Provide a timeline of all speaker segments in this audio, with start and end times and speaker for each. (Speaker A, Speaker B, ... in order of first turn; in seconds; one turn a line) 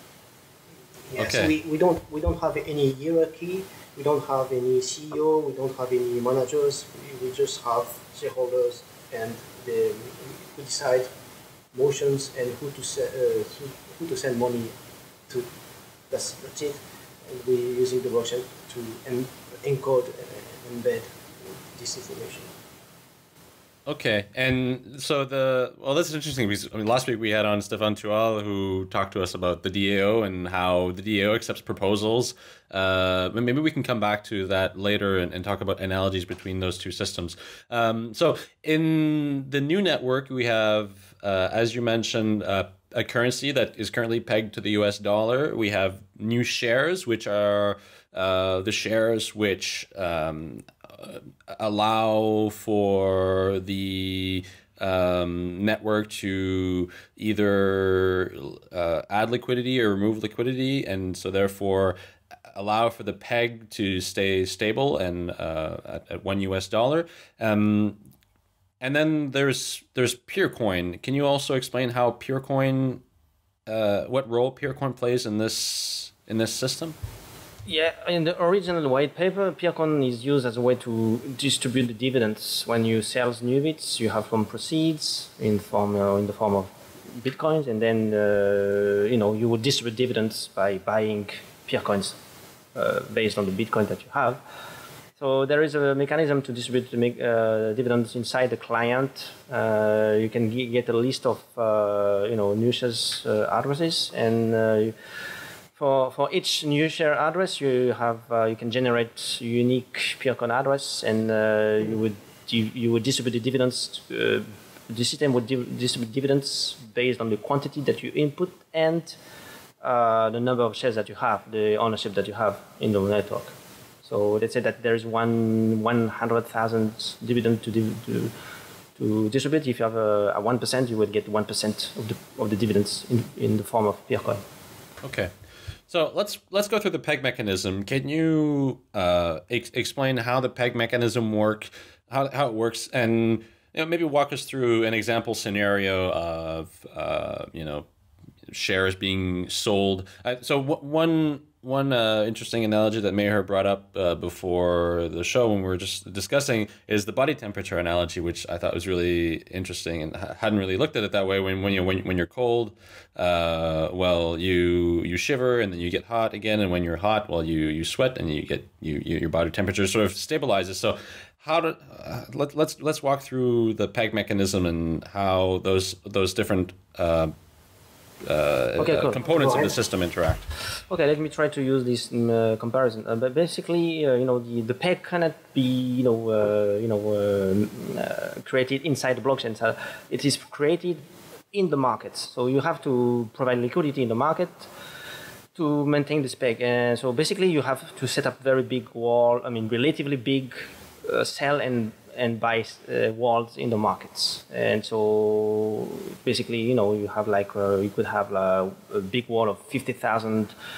Speaker A: 1.1-11.1
Speaker B: 1.2-1.5
Speaker A: 11.7-14.7
Speaker A: 16.1-22.5
Speaker B: 23.9-62.0
Speaker B: 62.5-68.0
Speaker B: 68.8-73.0
Speaker B: 73.7-77.0
Speaker C: 77.7-92.2
Speaker C: 92.7-94.4
Speaker C: 95.2-104.9
Speaker C: 105.8-119.2
Speaker C: 119.8-123.5
Speaker C: 124.0-128.3
Speaker C: 129.0-134.4
Speaker B: 135.0-135.3
Speaker B: 135.9-147.8
Speaker B: 148.5-177.3
Speaker B: 178.2-180.5
Speaker C: 178.8-179.2
Speaker A: 179.2-179.7
Speaker C: 180.9-194.7
Speaker C: 195.5-210.5